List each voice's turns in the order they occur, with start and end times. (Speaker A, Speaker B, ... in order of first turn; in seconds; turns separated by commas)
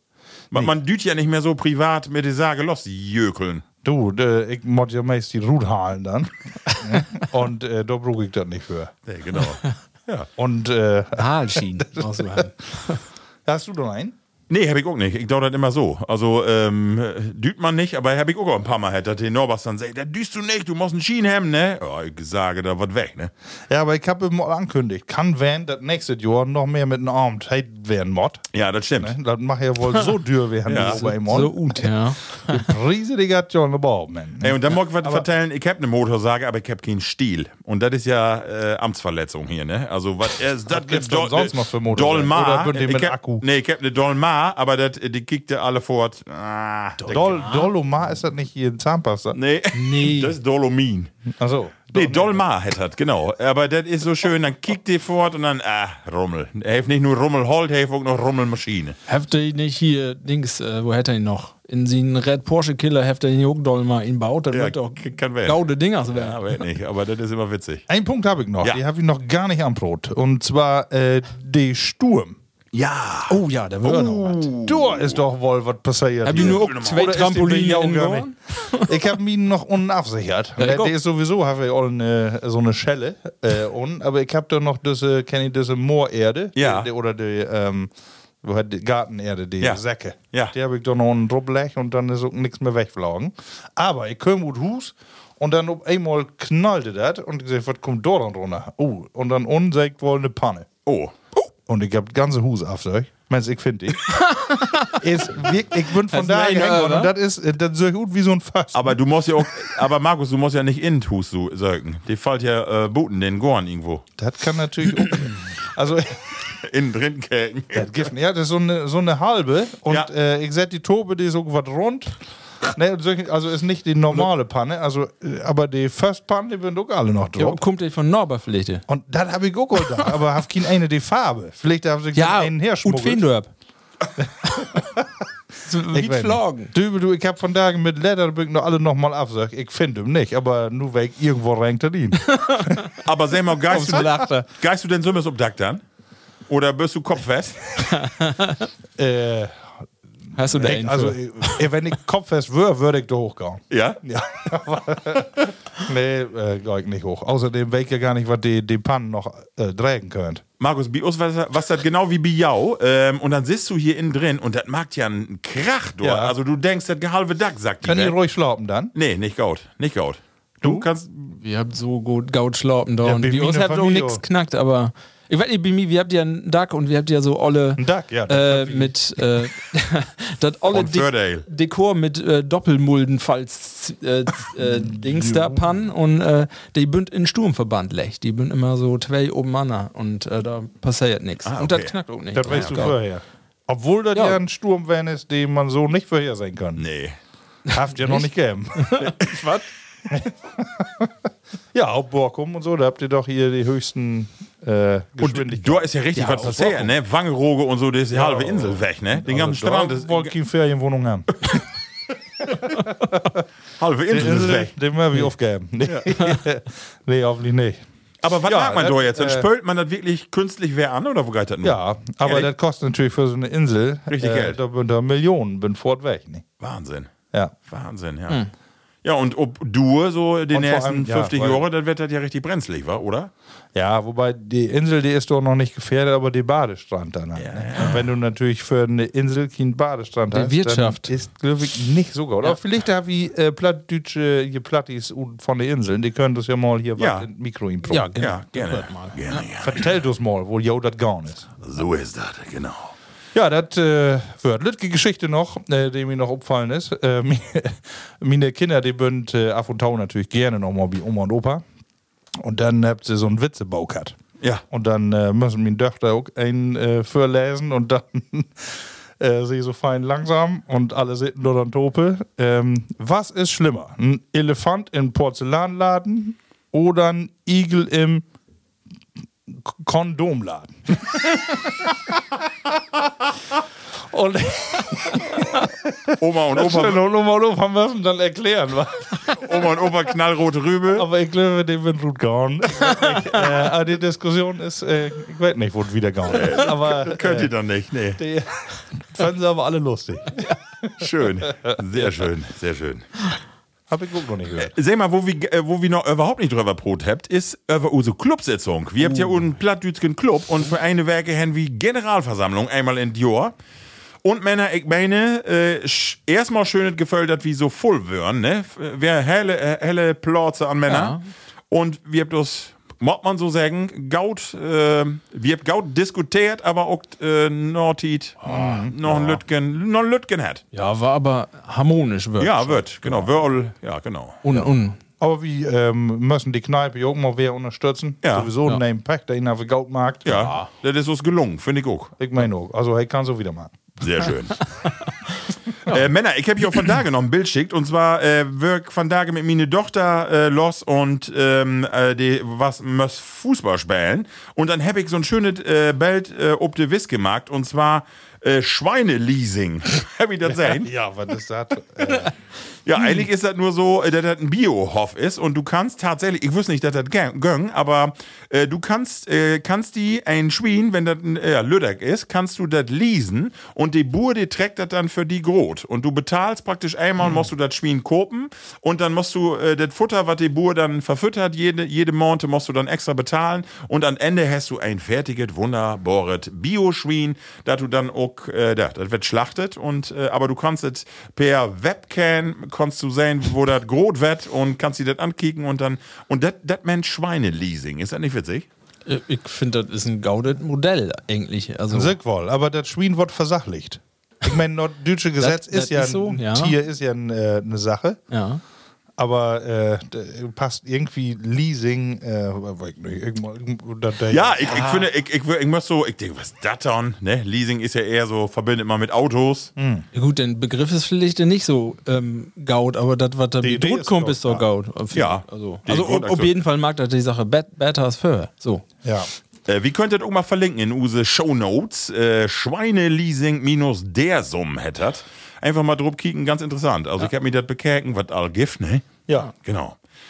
Speaker A: 0.5-3.6, Speaker B: 3.8-8.9, Speaker A: 9.1-10.3, Speaker B: 10.4-12.9, Speaker C: 11.2-13.0, Speaker B: 13.4-14.2, Speaker A: 14.5-23.3, Speaker B: 23.7-35.3, Speaker A: 28.5-29.2, Speaker A: 30.7-31.0, Speaker C: 30.8-32.7, Speaker A: 34.4-47.5, Speaker B: 40.7-43.4, Speaker C: 47.0-47.7, Speaker B: 47.1-49.4, Speaker A: 49.3-51.1, Speaker C: 49.7-50.4, Speaker B: 51.3-52.4, Speaker A: 51.9-59.0, Speaker C: 59.1-66.6, Speaker A: 64.5-67.8, Speaker B: 67.9-72.4, Speaker A: 72.7-75.2, Speaker C: 73.3-74.5, Speaker B: 74.7-87.9, Speaker C: 76.2-78.9, Speaker A: 76.3-77.0, Speaker C: 80.6-80.9, Speaker A: 86.6-86.9, Speaker B: 88.4-100.7, Speaker A: 100.9-101.5, Speaker B: 101.7-104.2, Speaker C: 104.1-105.0, Speaker B: 104.9-109.0, Speaker C: 106.1-107.1, Speaker A: 108.7-114.0, Speaker B: 114.2-116.4, Speaker A: 116.5-118.0, Speaker B: 117.7-127.6, Speaker C: 127.4-128.8, Speaker B: 128.9-133.3, Speaker C: 132.2-133.5, Speaker C: 135.7-136.7, Speaker B: 135.9-142.9, Speaker C: 142.3-142.9, Speaker A: 143.0-145.8, Speaker B: 143.7-144.4, Speaker C: 143.7-144.4, Speaker A: 146.5-147.8, Speaker C: 148.0-148.7, Speaker B: 149.0-149.7, Speaker C: 150.3-151.7, Speaker B: 150.5-160.4, Speaker A: 153.7-154.0, Speaker A: 160.6-168.2, Speaker B: 166.0-166.4, Speaker B: 167.8-168.9, Speaker A: 168.9-171.4, Speaker C: 171.4-193.0, Speaker B: 173.0-174.2, Speaker B: 177.8-179.2, Speaker A: 180.7-181.4, Speaker B: 184.6-185.8, Speaker A: 191.5-192.9, Speaker B: 192.3-196.9, Speaker A: 196.8-197.2, Speaker B: 197.7-199.1, Speaker C: 198.8-199.6, Speaker A: 199.0-199.3, Speaker B: 200.1-201.1, Speaker B: 201.7-206.8, Speaker A: 205.2-210.3, Speaker C: 206.2-206.8, Speaker B: 208.1-211.4, Speaker A: 213.8-214.7, Speaker B: 214.1-217.8, Speaker A: 218.2-222.5, Speaker B: 218.4-219.5, Speaker B: 221.6-226.4, Speaker A: 224.1-224.6, Speaker A: 226.6-227.1, Speaker A: 227.7-228.4, Speaker A: 229.0-233.3, Speaker B: 230.5-231.6, Speaker B: 233.7-248.2, Speaker A: 237.3-238.0, Speaker C: 240.3-241.1, Speaker A: 247.0-247.3, Speaker C: 247.9-249.4, Speaker A: 248.2-249.8, Speaker B: 249.6-251.5, Speaker A: 251.6-252.9, Speaker B: 253.3-261.6, Speaker B: 262.4-264.2, Speaker B: 264.7-278.2, Speaker B: 279.5-281.9, Speaker B: 284.1-289.4, Speaker A: 286.2-287.0, Speaker A: 289.4-291.1, Speaker B: 290.9-297.5, Speaker A: 296.3-298.2, Speaker B: 298.2-300.4, Speaker A: 301.0-303.2, Speaker B: 301.6-302.1, Speaker B: 303.9-304.7, Speaker A: 304.6-313.5, Speaker C: 309.0-309.4, Speaker A: 314.2-321.2, Speaker C: 320.9-321.2, Speaker A: 321.7-330.6, Speaker C: 328.4-328.8, Speaker B: 328.5-329.4, Speaker C: 330.7-333.3, Speaker A: 332.4-334.4, Speaker C: 334.4-335.0, Speaker B: 335.2-340.5, Speaker A: 338.2-338.5, Speaker A: 340.2-342.1, Speaker C: 340.3-340.7, Speaker B: 342.2-344.0, Speaker A: 344.0-344.8, Speaker A: 345.9-360.9, Speaker B: 360.4-362.3, Speaker A: 362.9-398.7, Speaker B: 377.2-377.5, Speaker C: 399.1-402.1, Speaker B: 401.9-408.2, Speaker C: 405.4-406.7, Speaker C: 408.3-408.6, Speaker B: 409.2-415.1, Speaker A: 414.3-419.7, Speaker B: 419.8-420.1, Speaker C: 420.1-428.9, Speaker B: 423.6-424.7, Speaker A: 425.1-426.5, Speaker B: 429.0-429.3, Speaker A: 429.7-440.0